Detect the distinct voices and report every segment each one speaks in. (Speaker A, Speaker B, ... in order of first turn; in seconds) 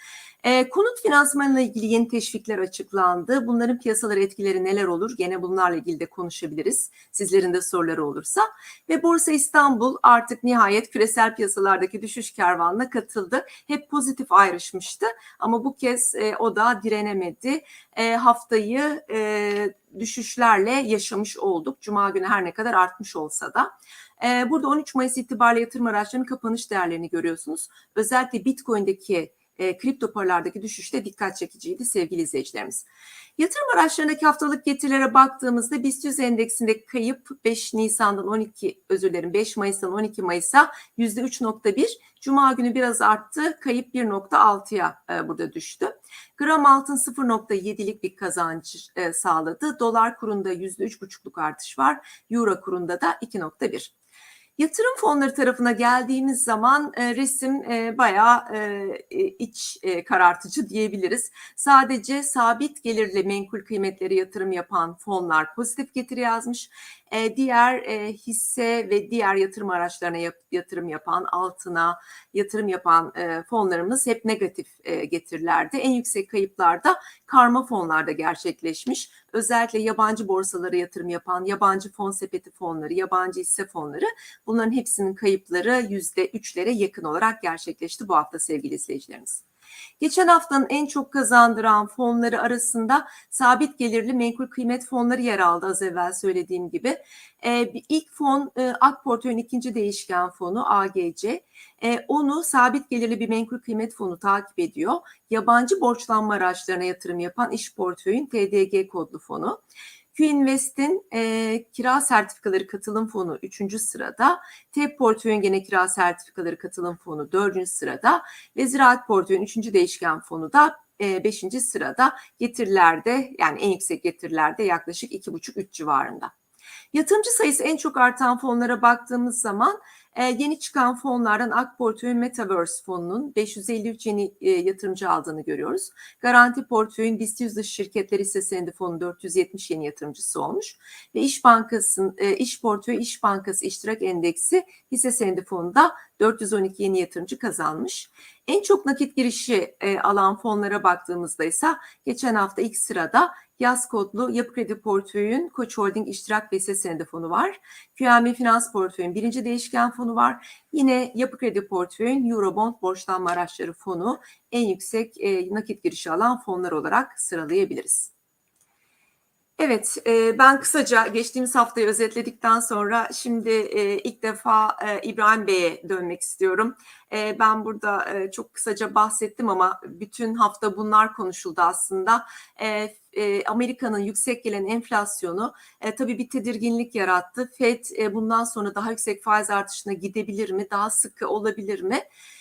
Speaker A: 0.4-32.9, 33.4-53.9, 54.6-89.4, 90.0-109.6, 110.1-126.3, 126.9-168.1, 169.6-192.0